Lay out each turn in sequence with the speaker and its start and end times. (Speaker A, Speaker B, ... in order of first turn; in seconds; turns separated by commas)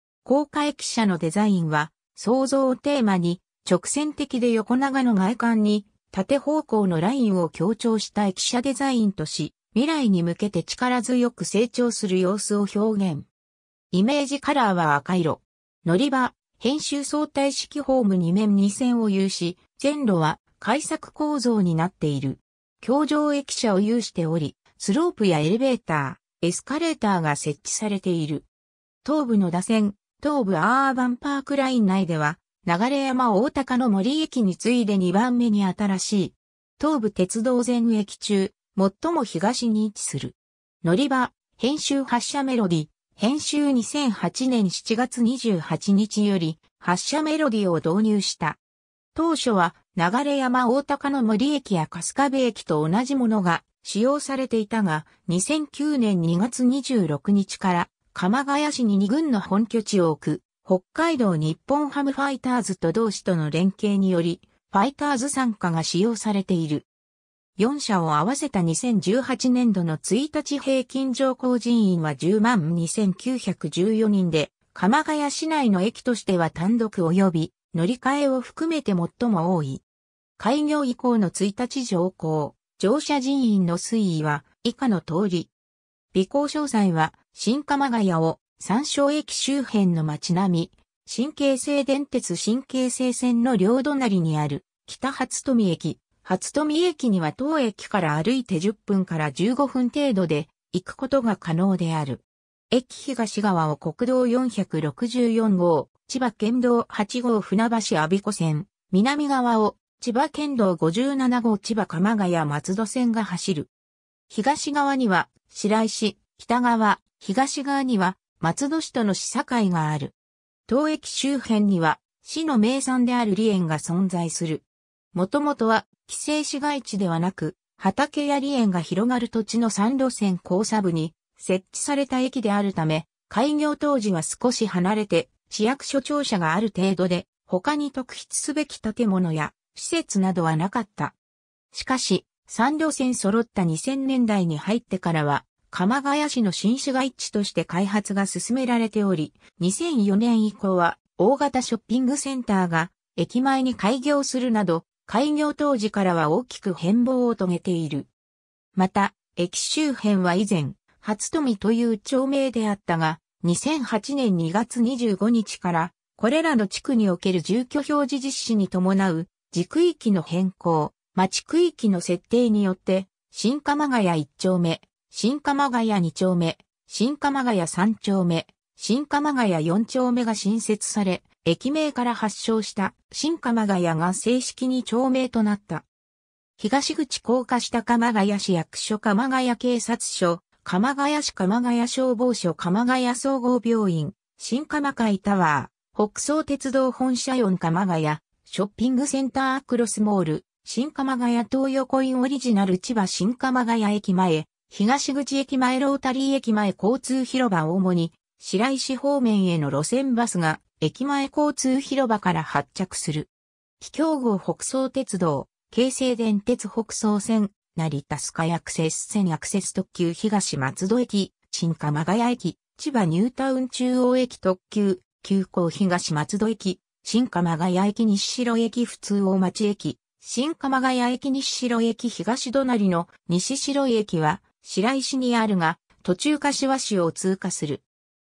Speaker A: 0.2-13.3, Speaker A: 13.9-28.4, Speaker A: 29.0-48.6, Speaker A: 49.1-66.8, Speaker A: 67.6-79.8, Speaker A: 80.4-85.5, Speaker A: 86.1-113.7, Speaker A: 114.3-120.1, Speaker A: 120.7-141.1, Speaker A: 141.7-158.1, Speaker A: 158.7-185.8, Speaker A: 186.6-213.3, Speaker A: 213.8-237.8